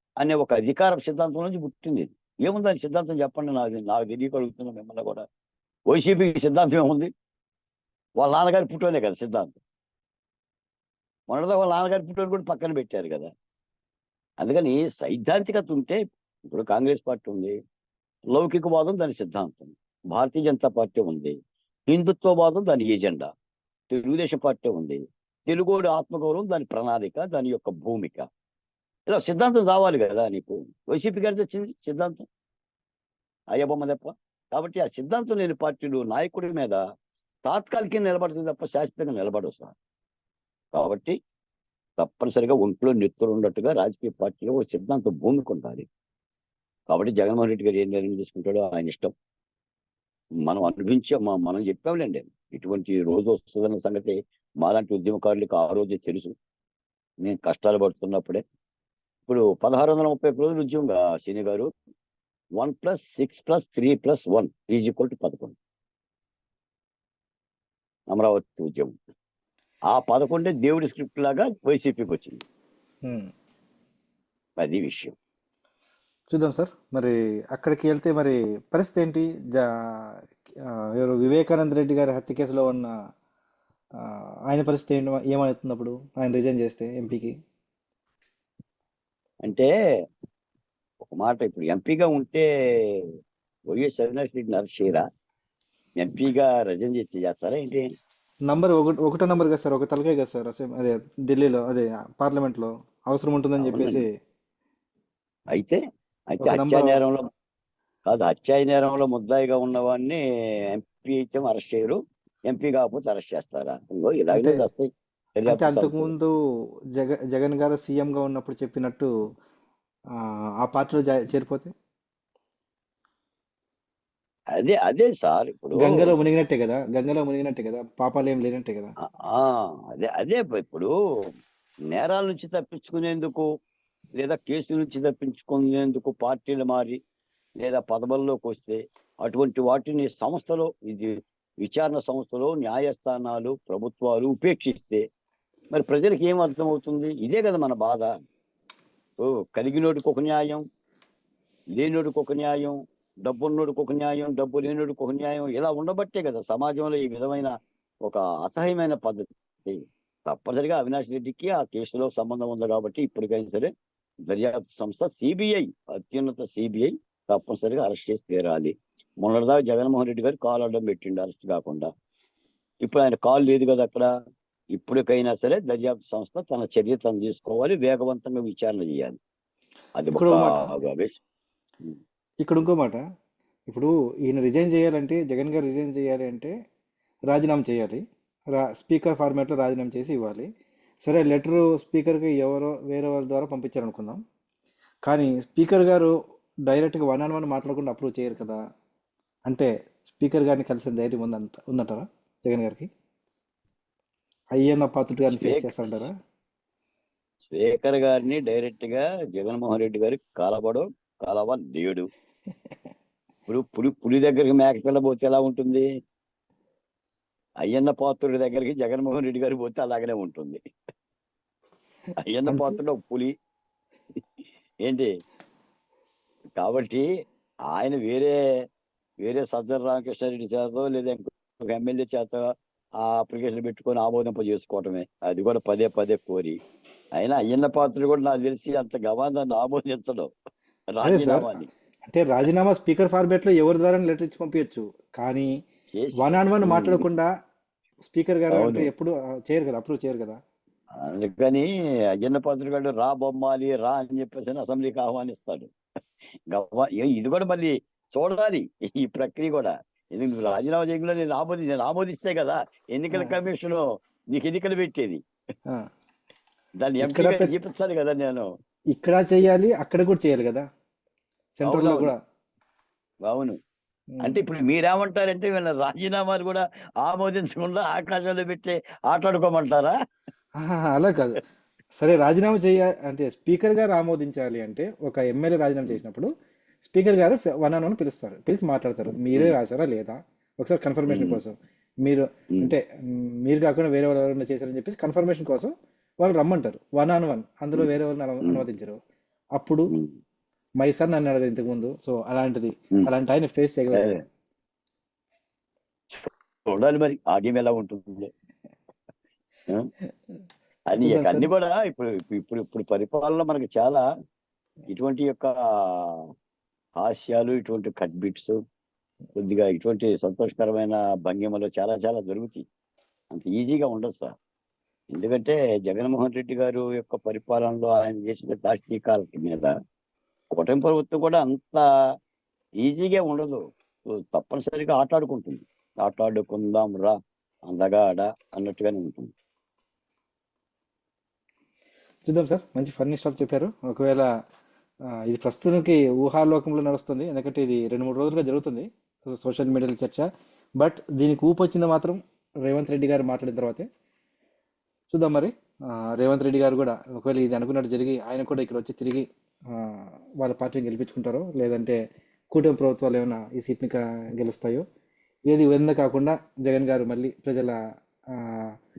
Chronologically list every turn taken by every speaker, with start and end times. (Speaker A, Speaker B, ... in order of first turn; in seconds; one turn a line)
Speaker A: 0.2-5.2
Speaker A: 5.9-7.1
Speaker A: 8.2-9.6
Speaker A: 11.3-13.3
Speaker A: 14.4-16.0
Speaker A: 16.5-17.5
Speaker A: 18.3-21.3
Speaker A: 21.9-23.3
Speaker A: 23.9-28.3
Speaker A: 29.1-32.2
Speaker A: 33.5-36.8
Speaker A: 37.5-39.7
Speaker A: 40.7-41.2
Speaker A: 42.0-45.9
Speaker A: 46.9-49.1
Speaker A: 50.4-56.3
Speaker A: 57.2-58.4
Speaker A: 59.3-61.7
Speaker A: 62.6-65.6
Speaker A: 68.1-68.9
Speaker A: 69.9-72.4
Speaker B: 73.0-73.3
Speaker A: 74.6-75.1
Speaker B: 76.3-80.1
Speaker B: 81.0-82.9
Speaker B: 84.5-87.3
Speaker A: 89.4-89.7
Speaker A: 91.1-92.5
Speaker A: 93.7-95.0
Speaker A: 96.0-97.8
Speaker B: 98.5-104.1
Speaker A: 103.6-104.1
Speaker A: 105.5-105.8
Speaker A: 106.3-107.2
Speaker B: 106.4-107.0
Speaker A: 108.1-110.2
Speaker A: 110.7-116.1
Speaker B: 114.3-114.6
Speaker B: 115.5-116.3
Speaker B: 117.0-119.1
Speaker B: 120.6-121.7
Speaker A: 124.5-126.1
Speaker B: 125.8-128.9
Speaker A: 129.2-130.9
Speaker A: 131.9-133.4
Speaker A: 134.2-137.0
Speaker A: 137.6-145.0
Speaker A: 145.7-148.1
Speaker A: 149.2-150.6
Speaker A: 151.8-163.7
Speaker A: 164.3-171.9
Speaker A: 172.8-174.1
Speaker A: 174.7-179.2
Speaker A: 180.0-181.1
Speaker B: 180.1-180.7
Speaker B: 182.4-183.0
Speaker B: 183.7-186.5
Speaker B: 187.3-188.0
Speaker B: 188.6-190.5
Speaker B: 191.1-194.2
Speaker B: 195.1-196.1
Speaker B: 196.7-198.6
Speaker B: 199.5-202.9
Speaker B: 204.6-206.1
Speaker A: 205.3-206.1
Speaker A: 207.5-212.1
Speaker A: 213.5-215.9
Speaker A: 217.6-220.6
Speaker A: 222.2-223.3
Speaker B: 222.5-222.8
Speaker A: 224.8-225.1
Speaker A: 226.6-227.1
Speaker A: 227.7-228.4
Speaker A: 229.2-232.5
Speaker A: 233.0-236.6
Speaker A: 237.2-240.3
Speaker A: 240.9-241.7
Speaker B: 241.0-241.5
Speaker B: 242.1-245.5
Speaker A: 245.9-247.0
Speaker B: 246.2-247.3
Speaker B: 248.1-250.4
Speaker A: 248.5-248.9
Speaker A: 251.0-251.7
Speaker A: 252.2-255.7
Speaker A: 256.5-265.2
Speaker B: 263.1-263.4
Speaker A: 266.8-268.5
Speaker B: 267.0-267.5
Speaker B: 268.9-270.6
Speaker B: 271.6-272.2
Speaker A: 271.6-272.1
Speaker A: 273.2-273.6
Speaker B: 274.2-274.4
Speaker A: 274.2-279.9
Speaker B: 280.6-281.4
Speaker B: 282.0-286.3
Speaker B: 286.8-292.8
Speaker A: 291.1-291.4
Speaker B: 293.5-295.7
Speaker B: 296.2-299.0
Speaker B: 299.6-299.9
Speaker A: 299.9-300.1
Speaker B: 300.8-304.2
Speaker A: 303.9-304.2
Speaker A: 306.2-308.3
Speaker A: 310.9-314.0
Speaker B: 311.0-311.5
Speaker A: 314.9-316.2
Speaker A: 317.0-318.6
Speaker A: 319.4-322.6
Speaker A: 323.3-324.3
Speaker A: 325.1-329.7
Speaker A: 330.6-331.8
Speaker A: 332.8-337.1
Speaker A: 337.7-339.3
Speaker B: 342.2-344.3
Speaker B: 345.3-350.2
Speaker B: 350.8-353.9
Speaker B: 355.1-355.5
Speaker B: 356.1-362.0
Speaker B: 362.5-364.9
Speaker B: 365.5-367.8
Speaker B: 368.4-368.7